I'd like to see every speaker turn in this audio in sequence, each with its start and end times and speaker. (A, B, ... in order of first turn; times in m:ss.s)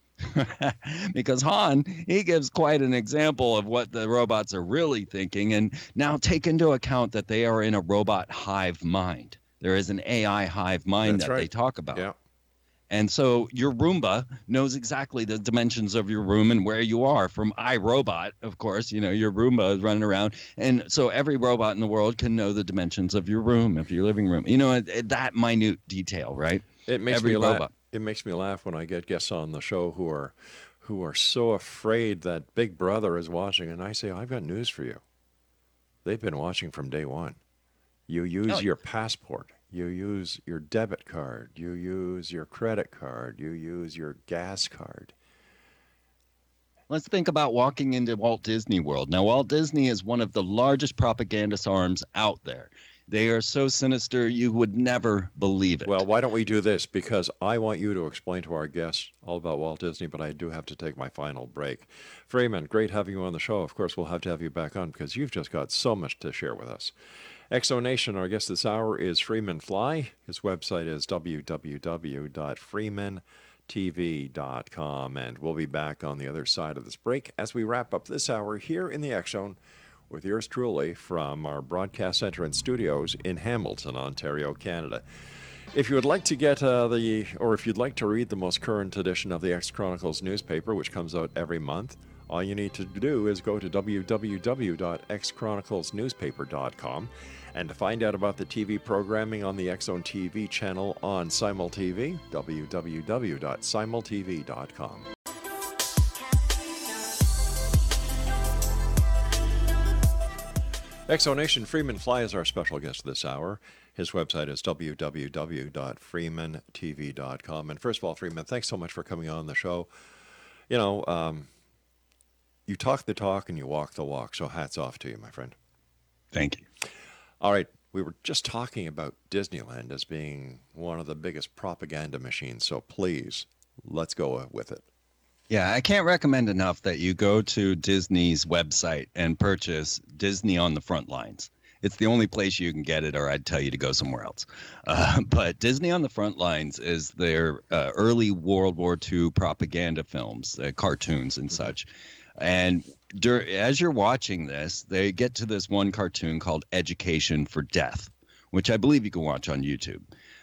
0:00.2-0:12.0 A
0:11.0-0:12.1 B
0:12.9-0:27.7 A
0:26.8-0:35.0 B
0:36.0-0:37.4 B
0:38.1-0:45.1 B
0:46.9-0:56.0 A
0:55.8-1:06.9 B
1:07.5-1:19.6 B
1:20.1-1:25.0 B
1:25.7-1:45.1 B
1:51.1-1:59.9 B
2:00.7-2:01.5 B
2:02.7-2:05.6 B
2:06.3-2:06.7 A
2:07.4-2:14.8 B
2:15.5-2:40.0 A